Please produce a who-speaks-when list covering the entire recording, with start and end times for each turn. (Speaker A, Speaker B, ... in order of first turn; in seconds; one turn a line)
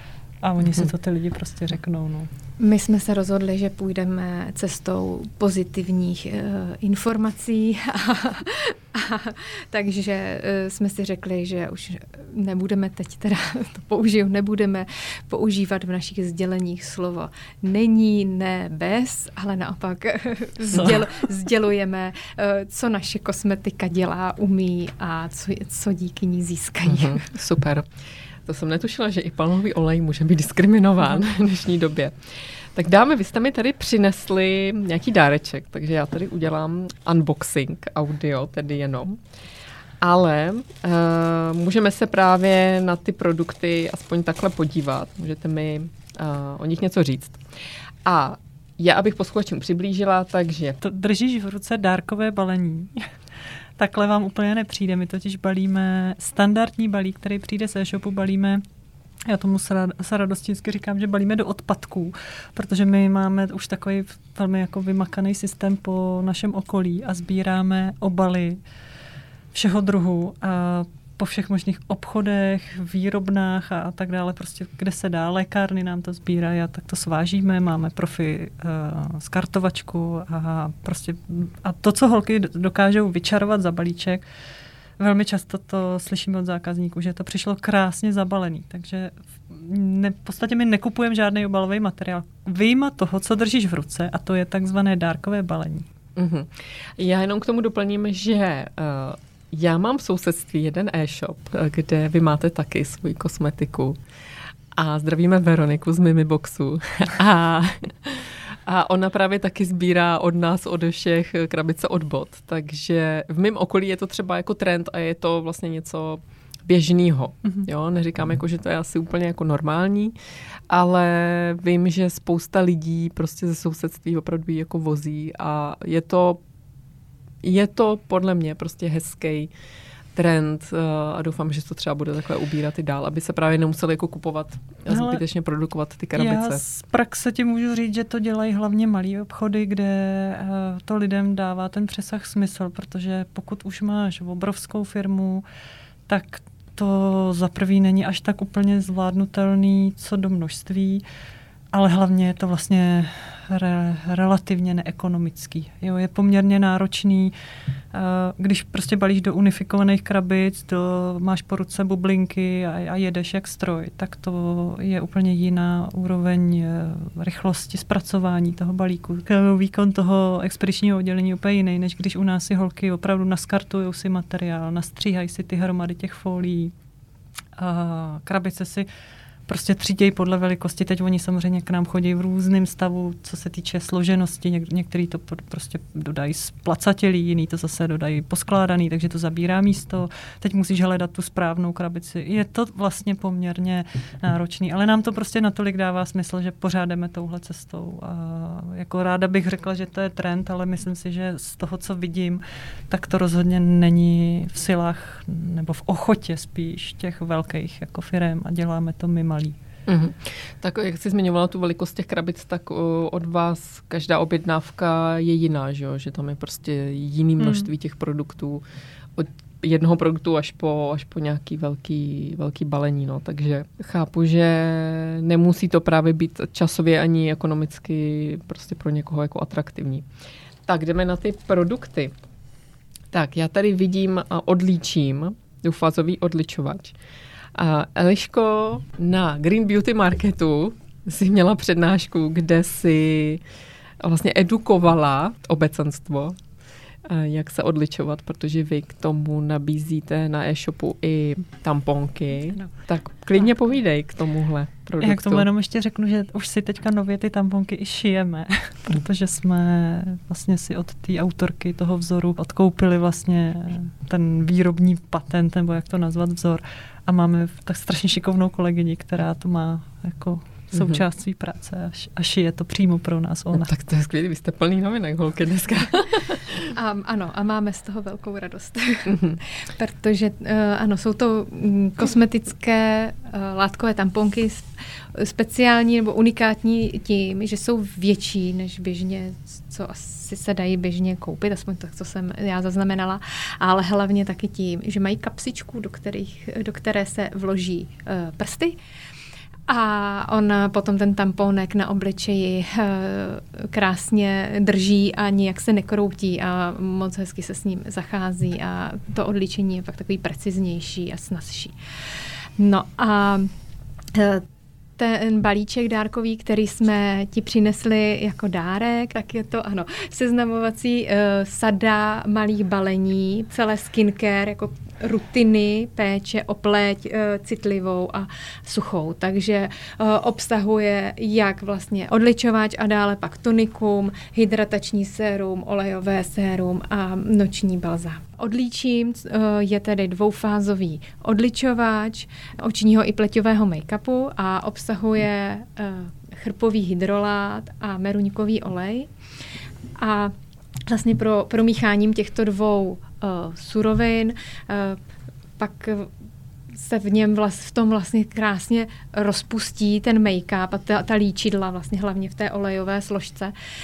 Speaker A: 0.4-2.3
Speaker B: 2.6-27.3
Speaker C: 26.9-27.9
Speaker C: 28.5-39.2
Speaker C: 40.0-47.4
Speaker C: 48.1-50.8
Speaker A: 50.8-53.0
Speaker A: 53.8-58.6
Speaker A: 59.3-68.6
Speaker A: 69.5-84.2
Speaker A: 85.0-95.9
Speaker C: 96.2-104.0
Speaker C: 104.8-120.2
Speaker C: 120.7-126.4
Speaker C: 127.4-129.5
Speaker C: 130.2-136.6
Speaker A: 134.9-135.2
Speaker A: 136.2-145.4
Speaker A: 146.1-151.0
Speaker A: 151.7-157.3
Speaker A: 157.9-176.7
Speaker A: 177.6-178.9
Speaker A: 179.5-209.6
Speaker C: 209.9-218.6
Speaker A: 217.4-217.7
Speaker C: 219.2-230.0
Speaker C: 230.7-232.1
Speaker C: 233.1-236.9
Speaker C: 237.6-243.4
Speaker C: 244.0-246.4
Speaker C: 247.1-255.5
Speaker A: 255.0-273.7
Speaker C: 270.8-271.0
Speaker C: 273.6-276.7
Speaker B: 276.7-298.8
Speaker C: 279.1-279.4
Speaker B: 299.7-311.8
Speaker B: 312.6-313.5
Speaker B: 314.1-314.5
Speaker B: 315.0-349.1
Speaker B: 350.0-350.3
Speaker B: 350.9-355.0
Speaker B: 355.6-356.1
Speaker B: 356.7-363.5